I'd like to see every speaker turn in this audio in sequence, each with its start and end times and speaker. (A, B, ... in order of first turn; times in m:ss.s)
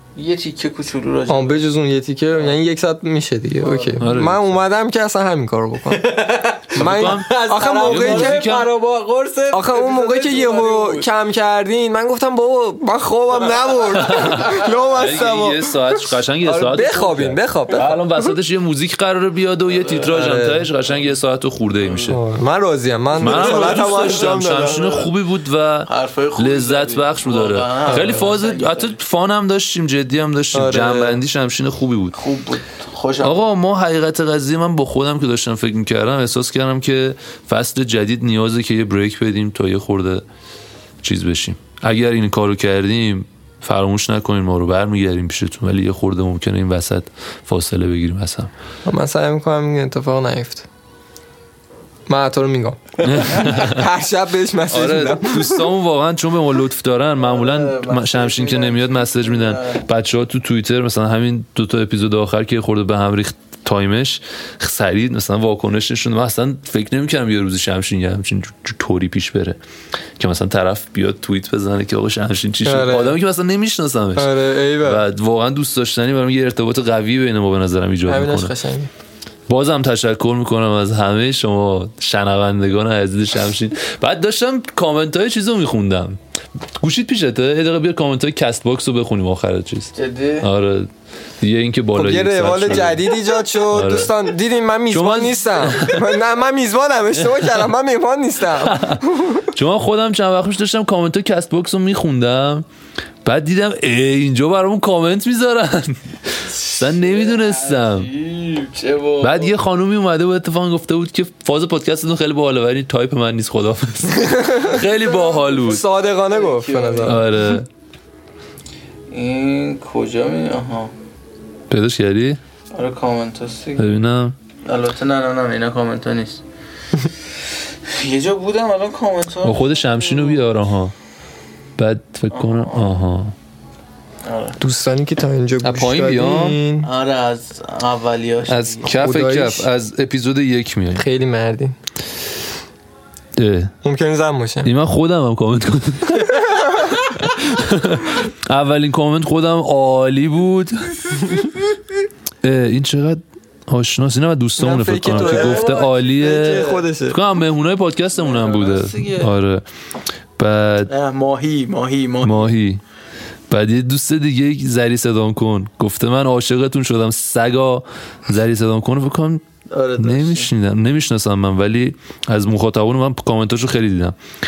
0:00.2-0:01.6 A
0:01.3-0:06.2 B
0:03.6-0:04.0 A
0:04.0-0:04.6 C
0:05.9-0:11.1 A
0:06.8-0:08.7 C
0:06.8-0:08.4 B
0:09.5-0:17.9 B
0:13.9-0:22.2 C
0:19.8-0:20.2 A
0:20.1-0:20.7 B
0:22.1-0:25.0 B
0:23.2-0:32.2 C
0:23.2-0:25.0 A
0:25.9-0:29.0 A
0:27.9-0:28.3 B
0:30.5-0:31.2 B
0:32.2-0:33.4 A
0:33.2-0:40.2 C
0:41.0-0:48.5 C
0:48.8-0:50.7 B
0:52.1-0:55.7 B
0:53.0-0:53.9 C
0:54.7-1:09.6 C
0:57.2-0:59.8 A
1:10.2-1:18.5 C
1:12.6-1:13.2 B
1:14.2-1:15.0 B
1:18.1-1:18.9 B
1:19.5-1:26.2 C
1:26.8-1:30.9 C
1:30.0-1:30.5 A
1:31.4-1:33.1 C
1:32.0-1:39.5 B
1:33.7-1:34.2 C
1:34.9-1:36.0 C
1:38.6-1:42.6 C
1:43.2-1:48.1 C
1:46.6-1:49.5 A
1:49.2-1:55.8 C
1:54.2-1:54.7 B
1:55.1-1:57.2 A
1:55.6-1:57.2 B
1:57.0-1:57.7 C
1:59.1-2:00.9 A
2:01.7-2:02.4 C
2:02.7-2:03.9 A
2:03.8-2:04.4 C
2:04.7-2:06.4 A
2:07.9-2:10.4 A
2:09.4-2:10.9 C
2:11.8-2:13.3 C
2:12.3-2:13.0 A
2:14.2-2:14.6 A
2:14.6-2:16.9 B
2:15.6-2:16.6 C
2:16.8-2:18.9 A
2:18.5-2:21.1 C
2:19.0-2:19.7 B
2:21.0-2:21.8 B
2:23.4-2:23.7 C
2:23.8-2:24.7 B
2:24.6-2:26.5 C
2:27.0-2:31.4 C
2:32.4-2:39.6 C
2:34.6-2:37.2 B
2:35.2-2:36.8 A
2:38.2-2:39.3 A
2:40.4-2:40.9 C
2:40.9-2:42.5 A
2:42.2-2:42.8 C
2:43.5-2:49.4 C
2:49.7-2:50.5 A
2:50.0-2:54.2 C